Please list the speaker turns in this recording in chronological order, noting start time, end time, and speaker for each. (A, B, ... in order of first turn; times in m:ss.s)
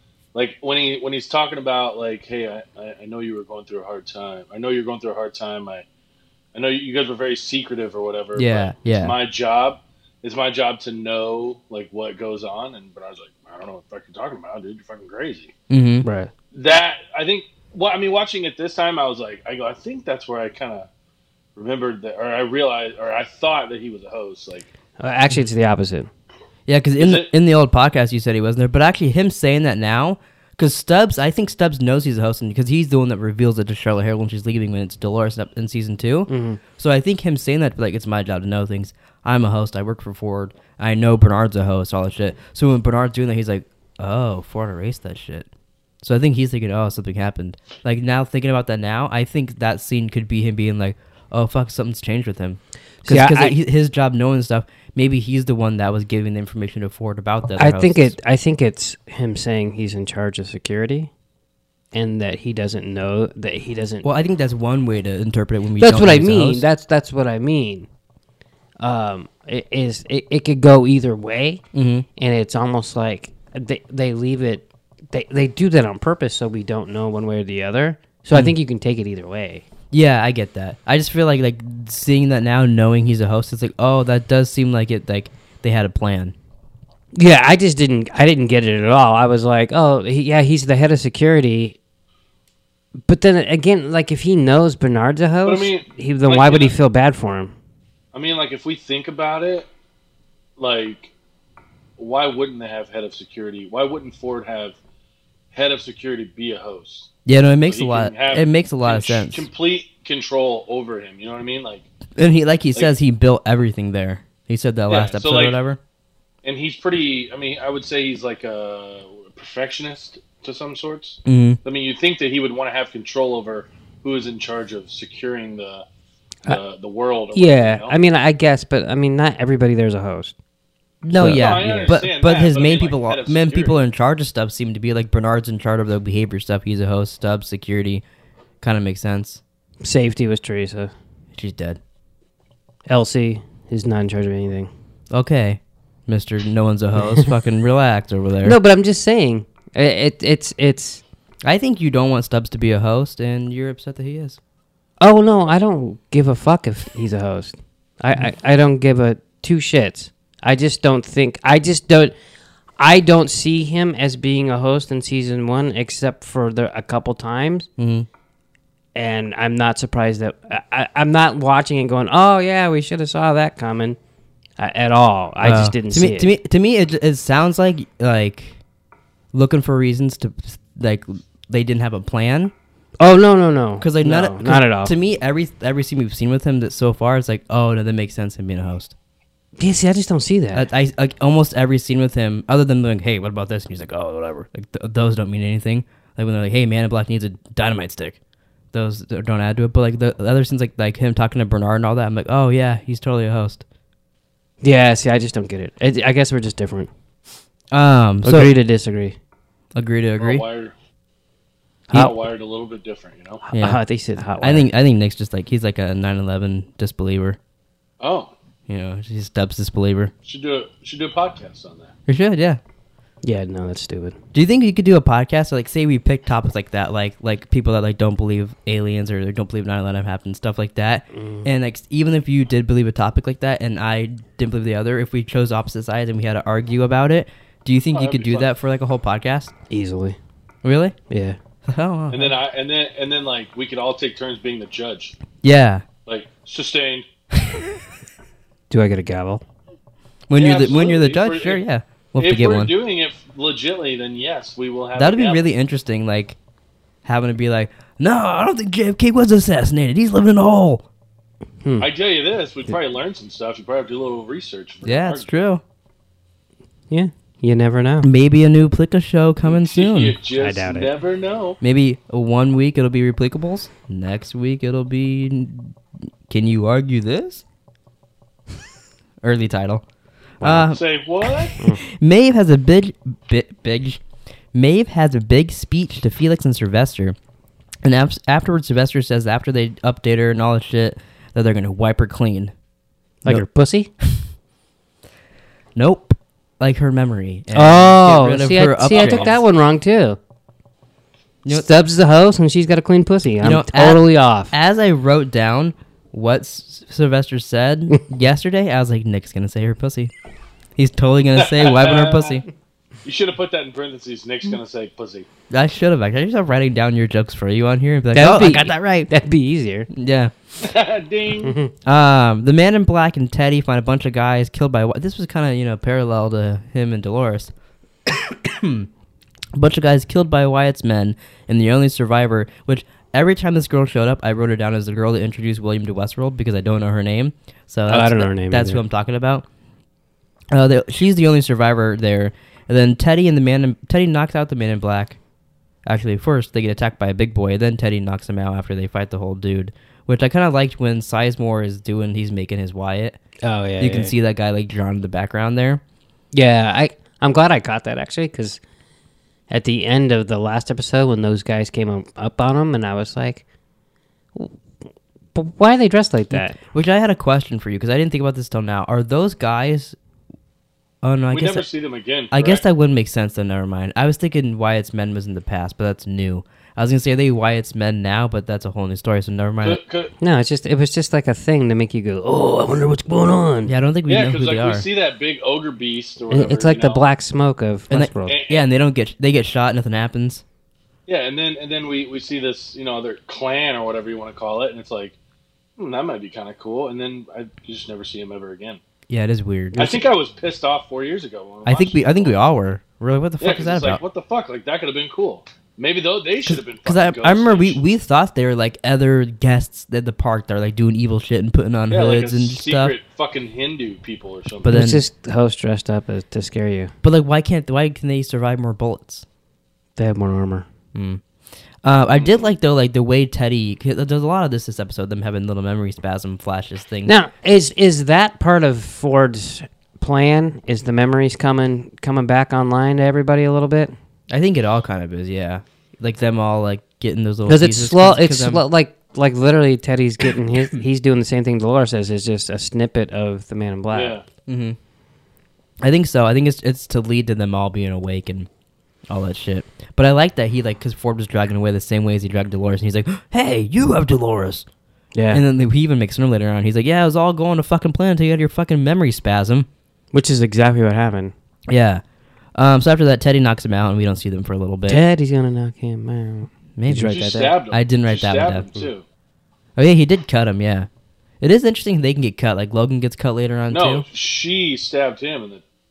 0:00.3-0:05.8 A
0:06.5-0:15.5 A
0:08.4-0:09.2 B
0:15.7-0:16.1 B
0:16.0-0:16.3 C
0:16.5-0:20.9 A
0:21.6-0:24.7 A
0:25.0-0:26.1 C
0:26.7-0:45.5 B
0:27.0-0:27.3 A
0:36.3-0:36.6 C
0:46.0-0:58.1 B
0:53.0-0:53.6 C
0:57.6-1:01.1 C
1:01.9-1:04.1 C
1:04.0-1:06.6 B
1:05.8-1:07.9 C
1:08.8-1:11.6 C
1:11.7-1:12.1 B
1:12.2-1:19.6 C
1:19.9-1:26.3 B
1:27.1-1:31.8 C
1:33.1-1:37.6 C
1:35.4-1:36.8 A
1:38.1-1:39.7 A
1:40.6-1:41.1 A
1:42.0-1:44.8 A
1:45.5-1:47.1 A
1:47.3-1:49.5 B
1:47.7-1:51.9 A
1:52.2-1:55.8 B
1:54.9-1:55.6 A
1:56.4-2:05.8 A
2:01.3-2:01.6 B
2:06.4-2:08.0 A
2:07.3-2:10.4 C
2:11.0-2:18.0 B
2:11.1-2:12.0 C
2:11.2-2:13.8 A
2:18.6-2:19.4 B
2:19.8-2:20.9 C
2:21.4-2:21.8 B
2:22.9-2:24.7 C
2:25.1-2:28.6 B
2:27.0-2:27.3 C
2:28.4-2:31.0 C
2:31.4-2:34.4 B
2:35.0-2:42.1 C
2:42.8-2:47.7 C
2:47.8-2:48.1 B
2:49.0-2:54.0 C
2:54.6-2:56.3 C
2:55.4-2:58.6 B
2:59.3-3:02.5 B
3:03.0-3:04.9 C
3:03.8-3:08.9 B
3:09.6-3:10.7 C
3:10.5-3:18.2 B
3:18.7-3:23.6 B
3:24.6-3:26.9 C
3:27.7-3:28.5 B
3:28.2-3:29.2 C
3:29.8-3:30.4 B
3:30.2-3:30.7 A
3:31.9-3:33.4 A
3:33.5-3:34.7 C
3:33.5-3:33.8 B
3:34.4-3:37.4 B
3:38.0-3:38.3 A
3:38.7-3:40.1 B
3:40.2-3:41.9 A
3:42.1-3:42.6 B
3:43.2-3:44.2 C
3:44.3-3:59.5 B
3:51.1-3:51.5 C
3:57.9-3:58.5 A
3:59.7-4:00.2 C
4:00.6-4:01.0 B
4:01.1-4:01.4 C
4:01.7-4:02.4 B
4:02.1-4:05.2 A
4:05.4-4:05.8 B
4:06.1-4:07.1 A
4:08.7-4:09.4 C
4:10.3-4:12.7 B
4:10.3-4:11.6 A
4:12.2-4:15.4 A
4:15.0-4:16.4 B
4:17.0-4:20.8 B
4:21.6-4:21.9 C
4:21.8-4:25.3 A
4:24.8-4:25.6 B
4:26.9-4:28.1 C
4:28.0-4:30.2 B
4:29.5-4:31.6 A
4:30.3-4:30.9 C
4:31.6-4:35.8 B
4:36.3-4:37.4 B
4:39.2-4:39.8 B
4:40.4-4:40.7 C
4:40.4-4:44.0 B
4:40.7-4:41.6 A
4:44.5-4:47.2 B
4:47.8-4:52.5 B
4:53.2-4:53.9 C
4:55.8-4:59.4 B
4:57.5-5:00.2 C
4:58.9-4:59.3 A
5:01.5-5:04.5 C
5:03.4-5:10.1 B
5:10.8-5:12.5 B
5:11.4-5:12.4 A
5:13.0-5:15.3 A
5:15.5-5:19.1 B
5:18.1-5:19.9 C
5:19.9-5:20.3 B
5:20.6-5:21.6 A
5:21.4-5:21.7 C
5:21.8-5:27.5 B
5:28.1-5:28.9 B
5:29.6-5:39.4 B
5:37.9-5:38.8 C
5:40.5-5:45.2 B
5:45.8-5:53.2 B
5:53.4-5:54.1 C
5:53.8-5:55.8 B
5:56.3-5:58.6 C
5:59.5-6:03.4 C
6:05.4-6:06.6 C
6:06.3-6:10.0 B
6:11.0-6:11.7 B
6:11.3-6:12.6 A
6:12.3-6:19.8 B
6:19.6-6:20.1 A
6:20.2-6:23.7 C
6:23.7-6:24.8 B
6:24.1-6:27.1 A
6:26.3-6:28.4 C
6:27.9-6:30.4 B
6:28.3-6:28.6 A
6:31.1-6:35.2 A
6:35.8-6:38.8 A
6:39.1-6:39.9 B
6:39.8-6:40.0 C
6:39.8-6:42.4 A
6:41.7-6:44.0 B
6:43.4-6:47.8 A
6:46.4-6:53.0 B
6:51.9-6:54.7 A
6:54.6-6:55.0 B
6:54.6-6:56.9 C
6:57.0-6:59.2 B
7:00.0-7:00.7 C
7:00.9-7:01.2 B
7:01.8-7:07.1 B
7:07.1-7:13.9 C
7:14.3-7:18.6 B
7:17.5-7:24.2 C
7:23.9-7:24.2 A
7:24.5-7:24.8 B
7:25.8-7:28.5 B
7:29.1-7:34.6 B
7:35.1-7:35.4 C
7:35.3-7:39.7 B
7:40.1-7:41.3 C
7:41.7-7:42.0 B
7:42.6-7:45.0 B
7:44.9-7:47.6 C
7:46.8-7:48.6 B
7:47.1-7:49.0 A
7:49.8-7:50.9 B
7:51.4-7:54.0 B
7:53.7-7:55.6 A